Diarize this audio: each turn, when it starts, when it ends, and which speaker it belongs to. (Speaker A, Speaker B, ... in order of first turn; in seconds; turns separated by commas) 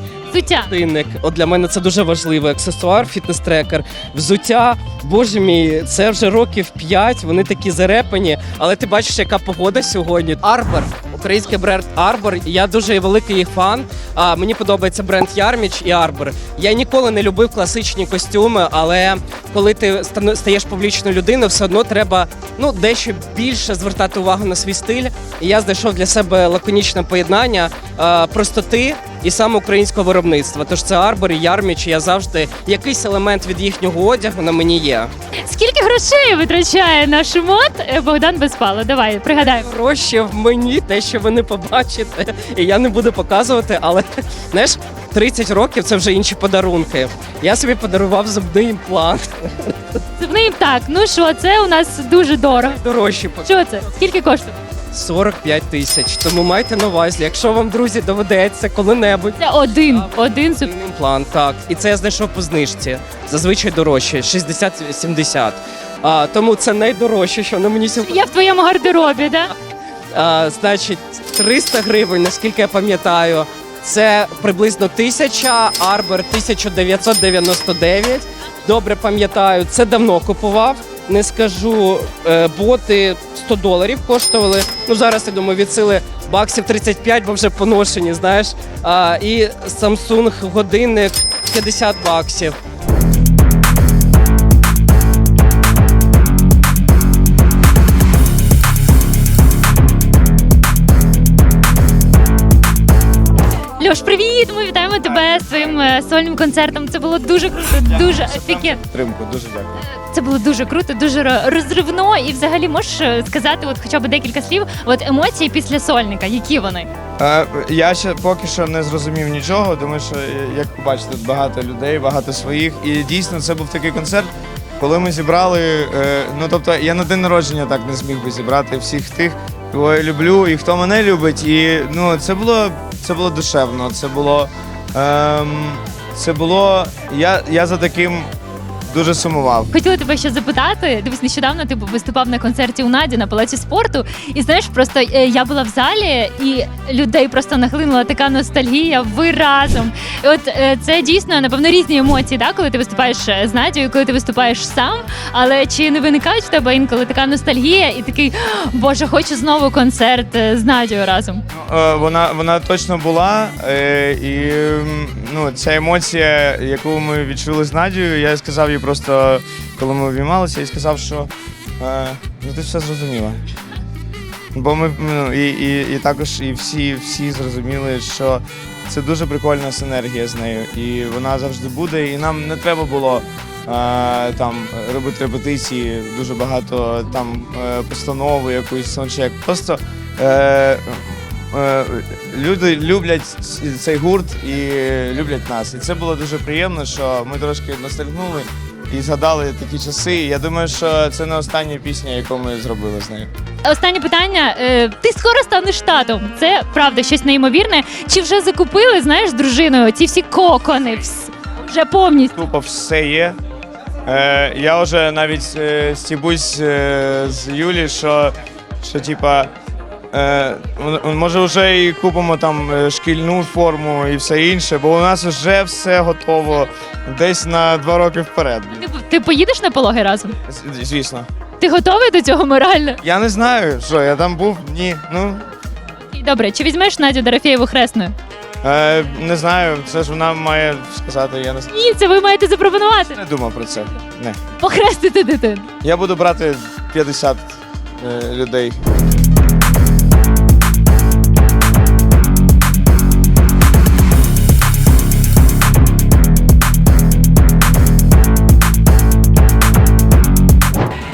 Speaker A: 0.3-0.7, Speaker B: 0.7-35.1, Speaker A: 35.5-39.7, Speaker B: 39.5-49.8, Speaker A: 50.2-52.8, Speaker B: 52.7-53.6, Speaker A: 53.4-54.6, Speaker B: 54.9-59.4, Speaker A: 59.4-60.7, Speaker B: 59.9-68.3, Speaker A: 68.0-69.5, Speaker B: 70.1-92.6, Speaker A: 103.8-108.8, Speaker C: 107.8-109.8, Speaker A: 109.8-116.9, Speaker C: 117.2-138.3, Speaker C: 138.9-139.7, Speaker A: 139.7-161.4, Speaker C: 161.5-173.4, Speaker C: 174.5-203.3, Speaker A: 203.6-212.4, Speaker C: 212.4-213.4, Speaker C: 214.1-219.5, Speaker C: 220.1-228.8, Speaker A: 228.8-230.4, Speaker C: 230.5-231.3, Speaker A: 231.6-233.0, Speaker C: 233.0-235.4, Speaker A: 236.1-238.2, Speaker C: 238.6-241.7, Speaker A: 241.7-243.2, Speaker C: 243.2-244.4, Speaker A: 244.6-245.7, Speaker C: 245.8-248.8